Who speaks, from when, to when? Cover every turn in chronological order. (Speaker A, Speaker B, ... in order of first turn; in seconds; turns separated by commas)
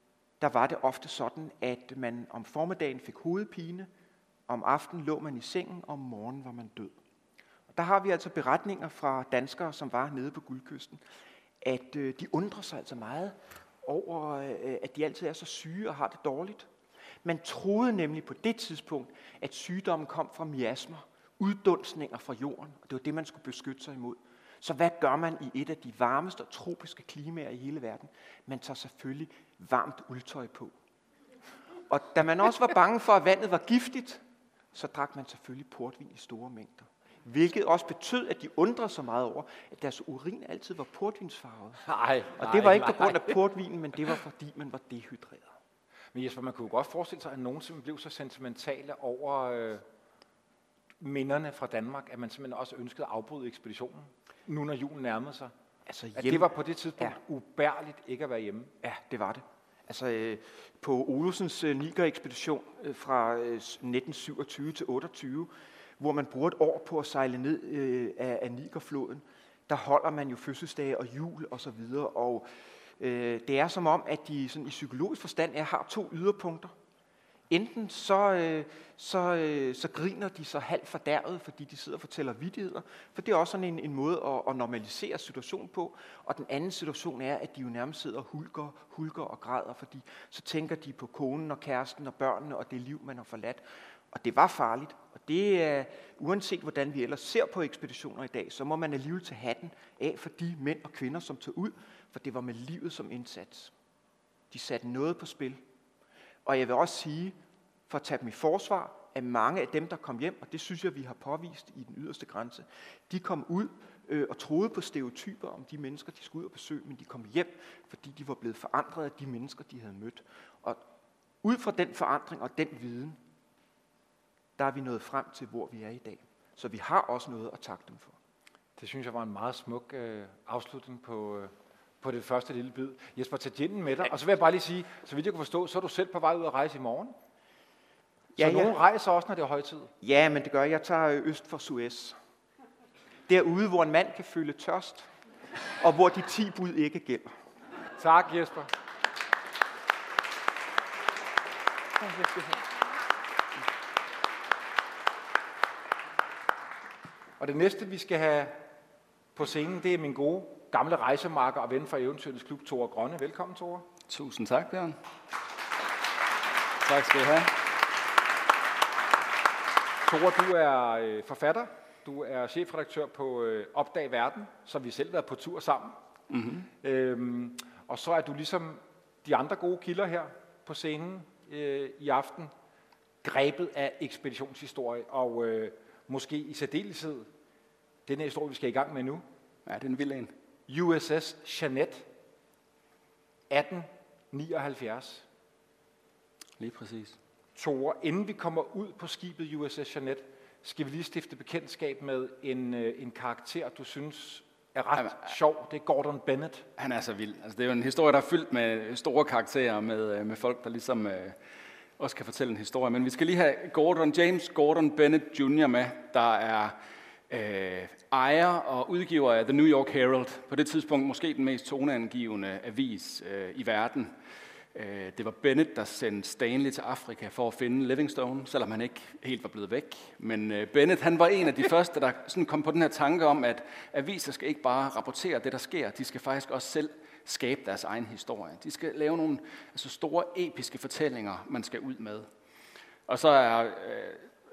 Speaker A: 0.4-3.9, Speaker A: 4.5-7.0, Speaker A: 7.7-11.0, Speaker A: 11.6-16.7, Speaker A: 17.2-30.7, Speaker A: 31.9-41.8, Speaker B: 41.8-43.4, Speaker A: 42.4-45.5, Speaker B: 46.1-49.8, Speaker B: 51.0-55.5, Speaker A: 55.9-57.1, Speaker B: 56.1-58.7, Speaker A: 58.8-72.5, Speaker A: 73.0-76.7, Speaker A: 77.5-103.7, Speaker A: 104.5-105.6, Speaker A: 106.4-107.4, Speaker A: 107.9-120.8, Speaker A: 121.4-123.2, Speaker A: 124.6-128.2, Speaker B: 128.8-137.1, Speaker A: 138.4-138.8, Speaker B: 138.4-139.9, Speaker A: 140.0-142.2, Speaker A: 143.3-145.1, Speaker A: 145.8-147.4, Speaker B: 148.0-148.7, Speaker B: 157.4-158.7, Speaker B: 159.4-163.9, Speaker C: 164.1-165.0, Speaker C: 166.8-167.7, Speaker B: 170.0-176.0, Speaker C: 176.3-176.7, Speaker B: 176.8-182.5, Speaker B: 183.2-187.3, Speaker B: 188.1-189.2, Speaker C: 189.7-190.3, Speaker B: 190.7-192.1, Speaker B: 193.5-195.2, Speaker C: 196.6-197.2, Speaker B: 197.6-206.7, Speaker C: 206.8-211.4, Speaker C: 212.0-216.8, Speaker C: 217.3-224.1, Speaker C: 224.7-242.3, Speaker C: 243.1-244.3